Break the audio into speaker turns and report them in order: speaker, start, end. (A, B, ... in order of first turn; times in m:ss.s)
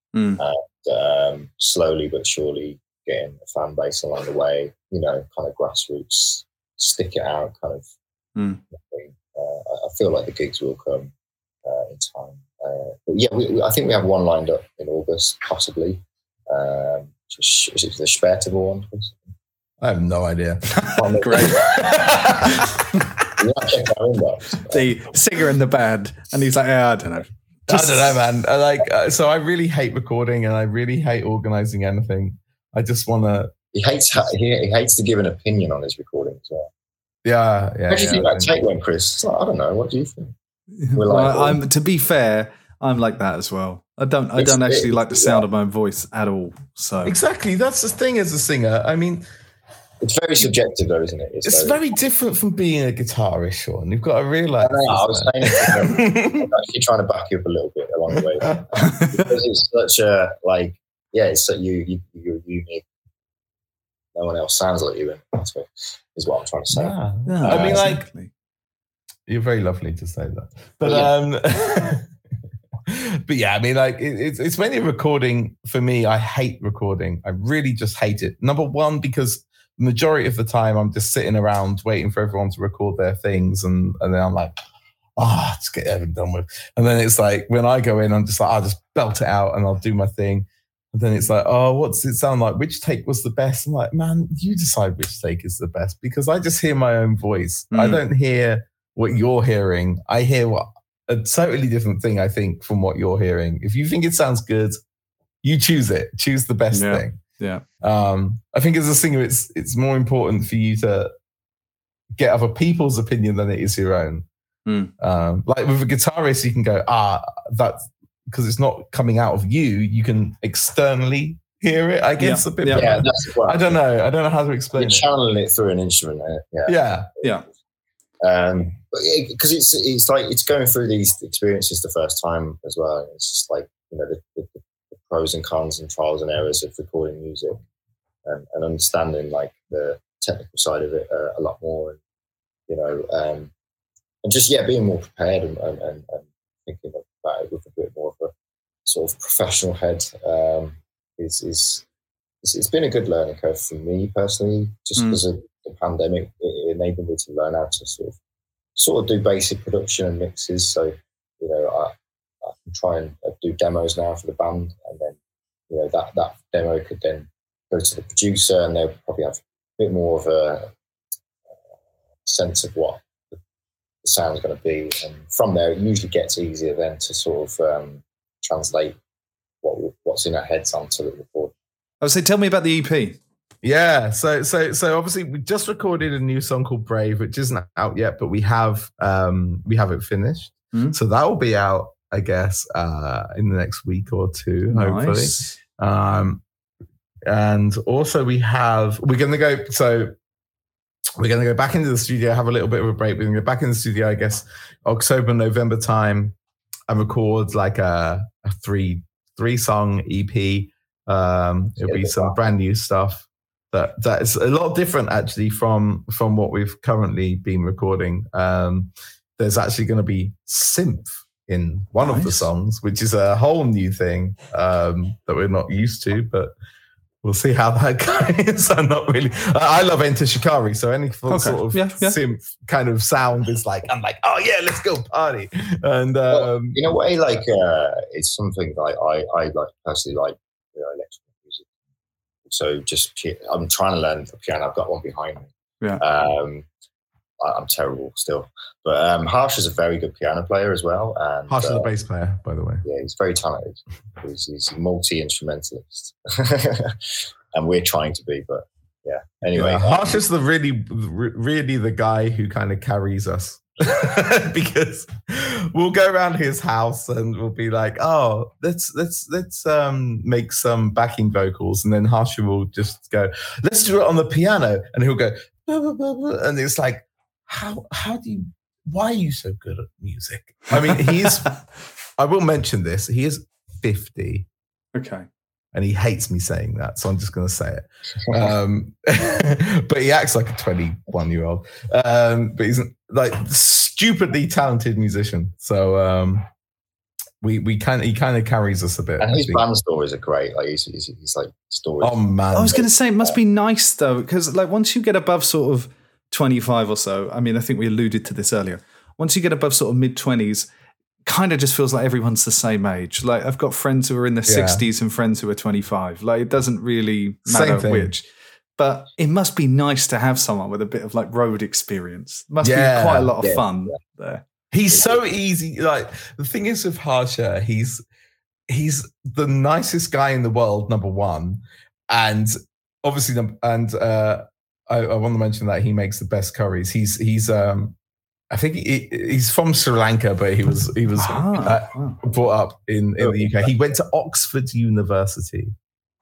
0:00.1-0:00.4 A
0:00.4-0:07.9 B
0:08.4-0:08.6 A
0:08.7-0:11.1 B
0:11.6-0:19.3 B
0:19.8-0:20.6 C
0:20.8-0:21.6 A
0:21.0-0:21.8 B
0:21.4-0:22.7 C
0:23.4-0:24.9 B
0:24.7-0:28.2 A
0:27.7-0:33.5 C
0:33.7-0:36.7 B
0:37.2-0:38.6 C
0:37.9-0:40.4 B
0:40.8-0:47.2 A
0:41.0-0:41.6 B
0:44.4-0:45.4 B
0:47.0-0:49.3 C
0:50.0-0:51.8 B
0:51.4-0:56.5 C
0:54.6-1:02.8 B
0:58.2-0:58.6 C
0:58.8-0:59.3 A
1:04.2-1:07.9 B
1:06.7-1:08.0 C
1:07.3-1:08.3 A
1:09.3-1:12.1 C
1:10.8-1:11.1 B
1:12.9-1:24.6 C
1:25.2-1:44.8 C
1:37.7-1:38.0 A
1:45.4-1:47.2 C
1:46.7-1:47.6 A
1:47.8-1:51.1 C
1:52.2-1:54.3 C
1:54.7-1:54.9 A
1:55.0-2:05.0 C
2:02.2-2:03.0 A
2:02.7-2:03.8 B
2:04.8-2:07.3 B
2:06.7-2:07.1 C
2:08.2-2:17.6 B
2:18.2-2:22.0 B
2:22.7-2:23.5 B
2:24.2-2:28.3 B
2:28.9-2:31.8 B
2:32.4-2:38.2 B
2:38.8-2:45.2 B
2:45.7-2:50.7 B
2:52.3-2:53.4 B
2:54.0-2:59.0 B
2:59.6-3:01.5 B
3:02.0-3:03.2 A
3:03.6-3:16.4 C
3:14.7-3:15.6 A
3:17.3-3:20.1 C
3:21.2-3:26.4 C
3:26.9-3:46.5 C
3:31.8-3:32.4 B
3:42.0-3:42.5 A
3:47.2-3:56.8 C
3:51.3-3:52.2 A
3:56.3-4:01.7 B
4:02.5-4:06.7 B
4:07.4-4:11.9 B
4:11.5-4:12.8 C
4:12.8-4:20.2 B
4:19.5-4:41.6 C
4:42.2-4:44.5 C
4:45.0-4:45.3 A
4:45.7-4:56.5 C
4:57.4-4:59.6 C
4:59.2-5:03.4 B
5:02.0-5:02.8 C
5:02.5-5:10.7 A
5:11.2-5:24.4 A
5:14.5-5:14.8 C
5:17.5-5:18.1 C
5:22.6-5:23.3 C
5:23.4-5:24.0 B
5:24.7-5:28.0 C
5:28.7-5:38.0 C
5:38.5-5:45.7 C
5:41.2-5:42.2 A
5:43.2-5:43.8 B